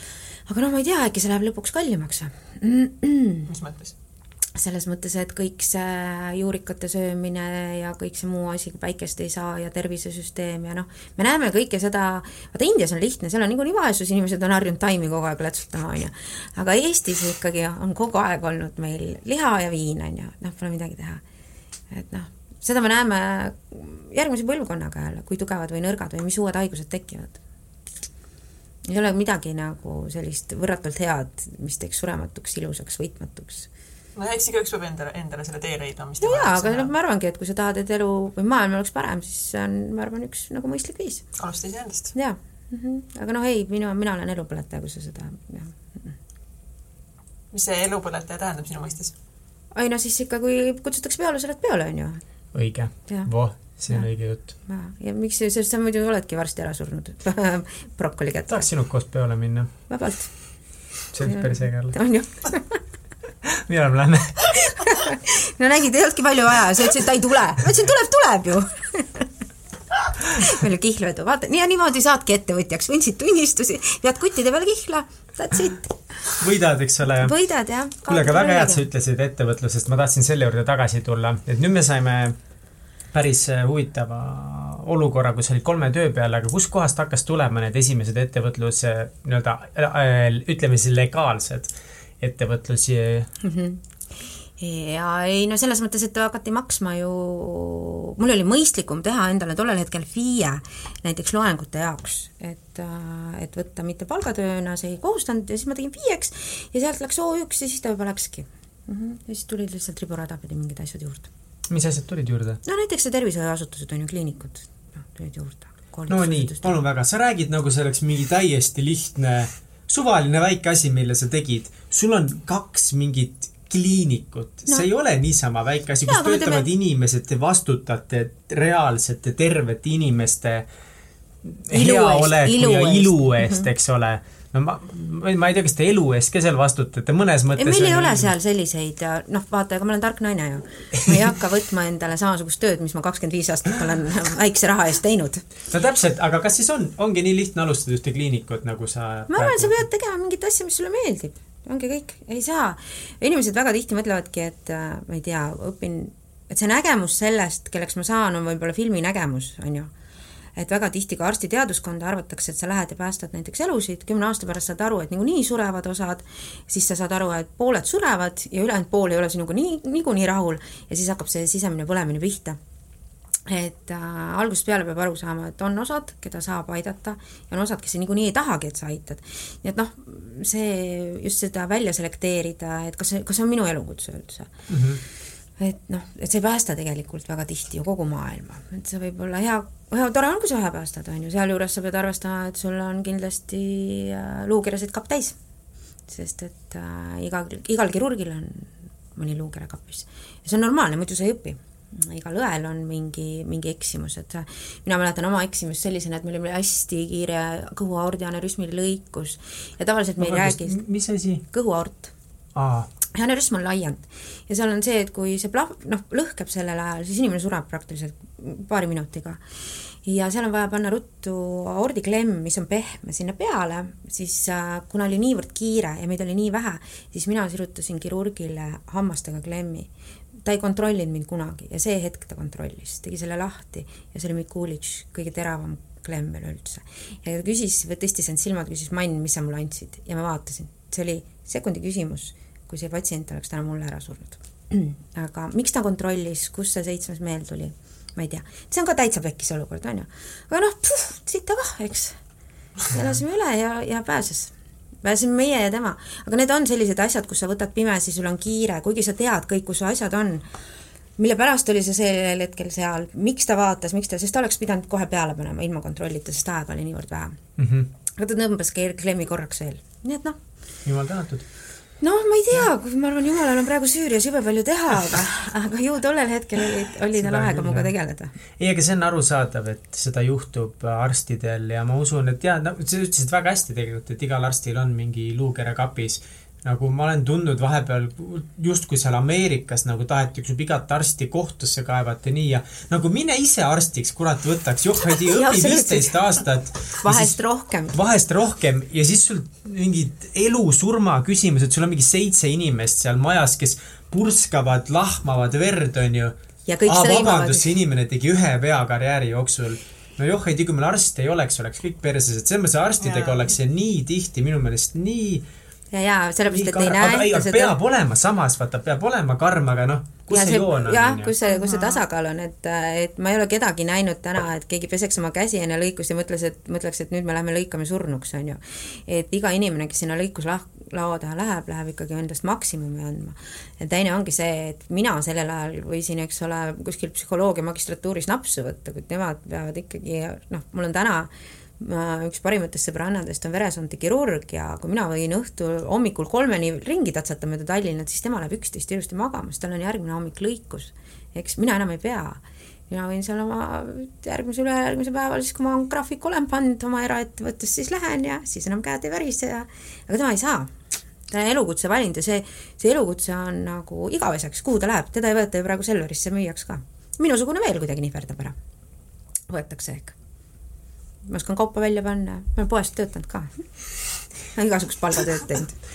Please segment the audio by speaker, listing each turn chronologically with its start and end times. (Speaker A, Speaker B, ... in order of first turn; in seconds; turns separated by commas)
Speaker A: 0.5-3.5, Speaker B: 3.5-4.0, Speaker A: 4.5-21.2, Speaker A: 21.9-27.4, Speaker A: 28.9-33.7, Speaker B: 34.2-36.9, Speaker A: 36.2-41.2, Speaker B: 41.4-42.1, Speaker A: 42.1-46.1, Speaker B: 47.5-49.1, Speaker A: 49.7-52.2, Speaker C: 52.5-54.5, Speaker A: 54.6-58.7, Speaker C: 58.5-59.7, Speaker A: 59.9-60.3, Speaker C: 61.1-62.0, Speaker A: 61.2-62.8, Speaker C: 63.5-64.6, Speaker A: 64.5-69.3, Speaker A: 70.2-75.9, Speaker C: 76.4-77.3, Speaker A: 77.2-78.8, Speaker C: 78.1-82.4, Speaker C: 83.1-93.3, Speaker A: 93.4-93.8, Speaker A: 94.6-111.3, Speaker C: 111.7-112.6, Speaker A: 112.7-116.8, Speaker C: 116.1-130.7, Speaker A: 126.0-126.7, Speaker C: 131.4-138.3, Speaker A: 131.7-133.7, Speaker A: 137.6-145.4, Speaker C: 141.0-141.3, Speaker C: 145.7-149.8, Speaker A: 149.3-159.9, Speaker A: 160.6-172.6, Speaker A: 173.5-184.5, Speaker C: 184.7-185.0, Speaker A: 185.6-195.4, Speaker A: 196.1-210.8, Speaker C: 210.2-211.4, Speaker A: 211.4-212.1, Speaker C: 212.6-212.9, Speaker A: 213.1-219.4, Speaker A: 220.0-229.9, Speaker A: 230.4-252.2, Speaker A: 252.9-260.5, Speaker A: 261.2-267.4, Speaker C: 267.6-267.9, Speaker A: 268.1-270.4, Speaker C: 270.9-271.5, Speaker A: 272.0-278.3, Speaker C: 276.8-277.9, Speaker C: 278.6-297.4, Speaker A: 295.1-298.0, Speaker C: 297.9-315.5, Speaker A: 306.7-307.7, Speaker B: 313.0-313.5, Speaker A: 315.9-317.8, Speaker C: 316.5-321.3, Speaker A: 320.3-360.7, Speaker B: 321.5-322.0, Speaker A: 361.3-368.6, Speaker A: 369.5-370.2, Speaker A: 371.3-373.5, Speaker A: 374.6-375.8